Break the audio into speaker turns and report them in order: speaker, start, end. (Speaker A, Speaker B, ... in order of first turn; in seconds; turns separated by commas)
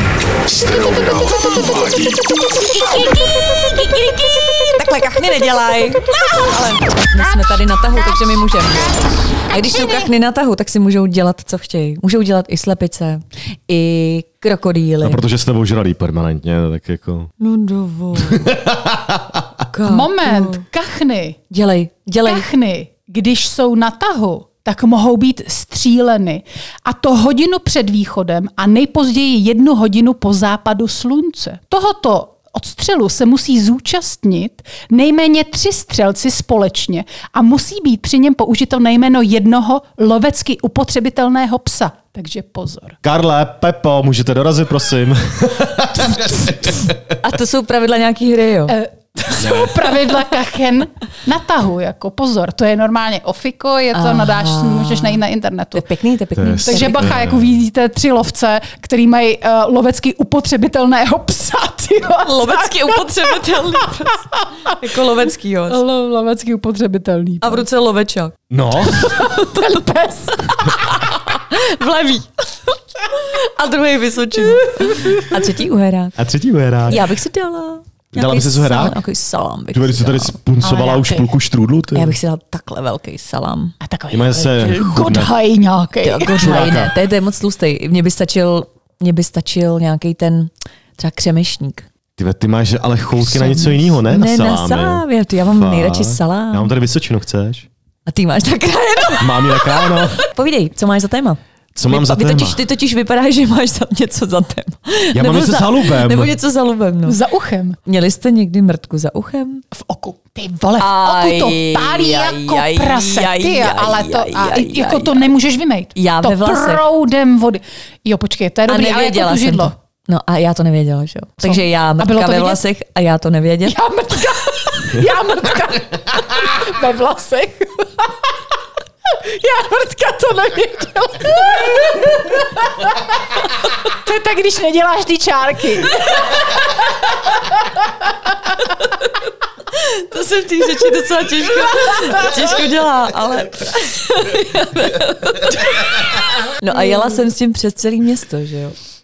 Speaker A: 0.5-2.2, Speaker B: 2.8-4.7, Speaker C: 4.7-15.2, Speaker B: 9.6-10.0, Speaker A: 15.0-17.3, Speaker C: 17.4-18.5, Speaker A: 18.2-19.5, Speaker C: 19.7-20.6, Speaker B: 19.9-21.4, Speaker C: 21.5-22.5, Speaker B: 22.2-43.0, Speaker A: 43.0-47.2, Speaker C: 47.2-48.8, Speaker B: 48.7-55.8, Speaker A: 49.4-49.9, Speaker C: 53.9-55.2, Speaker C: 55.7-57.2, Speaker A: 56.4-57.6, Speaker B: 56.6-64.9, Speaker C: 62.2-65.8, Speaker B: 65.7-67.7, Speaker C: 67.4-68.3, Speaker A: 68.5-69.3, Speaker B: 68.8-71.0, Speaker C: 69.0-76.2, Speaker B: 74.5-75.3, Speaker A: 76.2-77.1, Speaker C: 76.9-80.3, Speaker A: 78.1-79.0, Speaker A: 79.7-82.2, Speaker B: 80.6-81.3, Speaker C: 81.9-83.7, Speaker B: 83.8-86.7, Speaker A: 84.1-85.3, Speaker C: 86.0-91.9, Speaker A: 86.3-87.0, Speaker A: 92.2-97.7, Speaker C: 93.3-96.7, Speaker C: 98.1-107.2, Speaker A: 99.2-100.2, Speaker A: 101.8-102.6, Speaker A: 105.1-106.3, Speaker B: 107.1-107.8, Speaker C: 107.9-109.6, Speaker B: 109.7-119.7, Speaker C: 110.8-115.3, Speaker C: 116.0-116.8, Speaker C: 118.7-123.8, Speaker B: 121.4-122.6, Speaker B: 123.7-128.3, Speaker B: 129.1-138.3, Speaker C: 138.6-139.1, Speaker C: 139.7-148.8, Speaker B: 146.7-147.2